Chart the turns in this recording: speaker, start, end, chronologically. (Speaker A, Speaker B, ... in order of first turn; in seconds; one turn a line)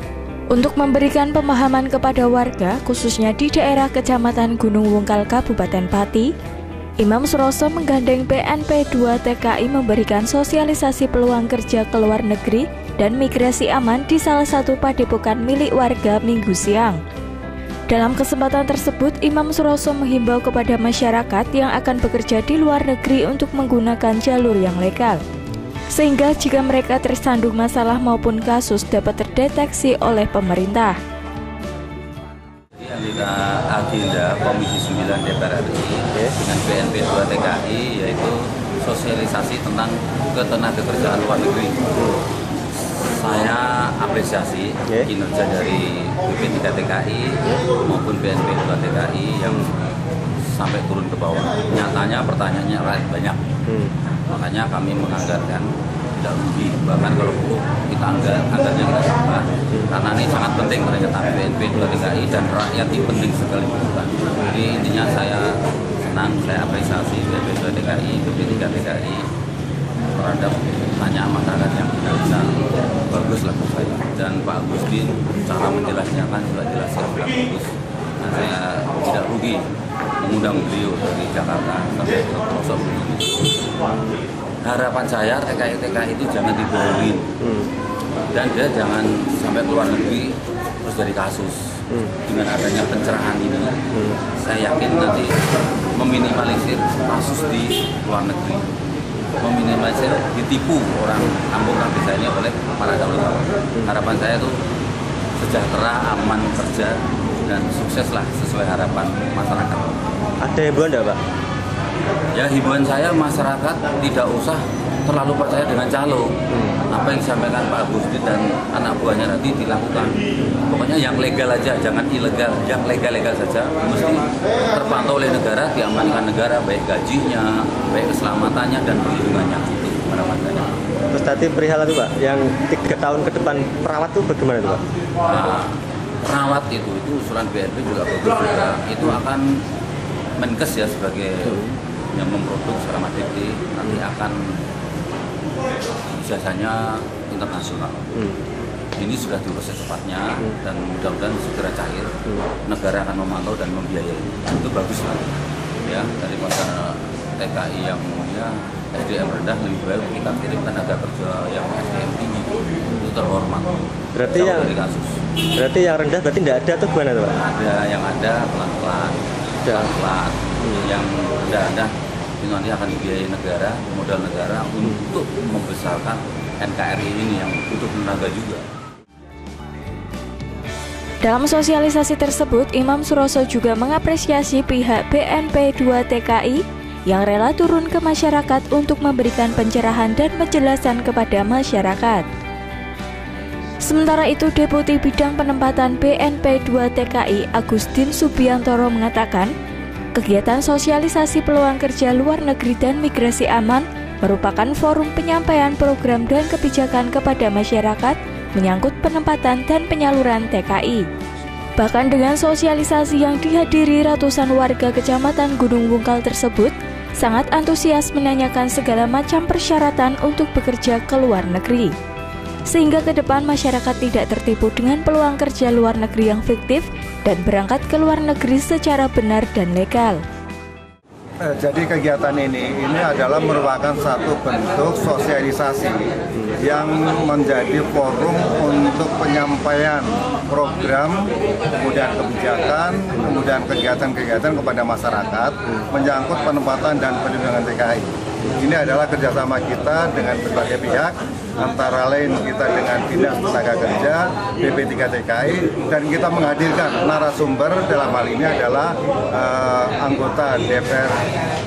Speaker A: 0.5-6.3
Speaker A: 7.0-17.0
Speaker A: 17.9-25.2
Speaker A: 25.9-31.0
Speaker B: 32.8-41.8
Speaker B: 43.0-49.7
Speaker B: 50.5-53.4
Speaker C: 53.7-53.9
Speaker B: 54.3-65.5
Speaker B: 66.0-69.2
Speaker B: 70.2-72.5
Speaker B: 73.1-79.6
Speaker B: 80.2-83.5
Speaker B: 84.6-87.2
Speaker C: 87.4-87.7
Speaker B: 88.3-91.6
Speaker B: 92.3-93.8
Speaker B: 94.4-95.3
Speaker B: 96.0-98.7
Speaker B: 99.4-104.5
Speaker B: 105.4-110.0
Speaker C: 110.4-111.2
Speaker B: 112.3-116.3
Speaker C: 116.5-116.8
Speaker B: 116.9-130.7
Speaker C: 131.1-134.8
Speaker B: 135.2-135.7
Speaker B: 136.2-139.4
Speaker B: 140.4-141.6
Speaker C: 141.4-141.8
Speaker B: 142.1-144.4
Speaker B: 146.1-148.1
Speaker B: 149.0-152.1
Speaker B: 152.7-165.2
Speaker C: 164.2-164.7
Speaker C: 165.6-167.4
Speaker B: 167.6-178.7
Speaker A: 181.2-192.2
Speaker A: 193.9-199.5
Speaker A: 200.2-211.1
Speaker A: 211.8-221.9
Speaker A: 222.7-230.2
Speaker D: 231.4-261.2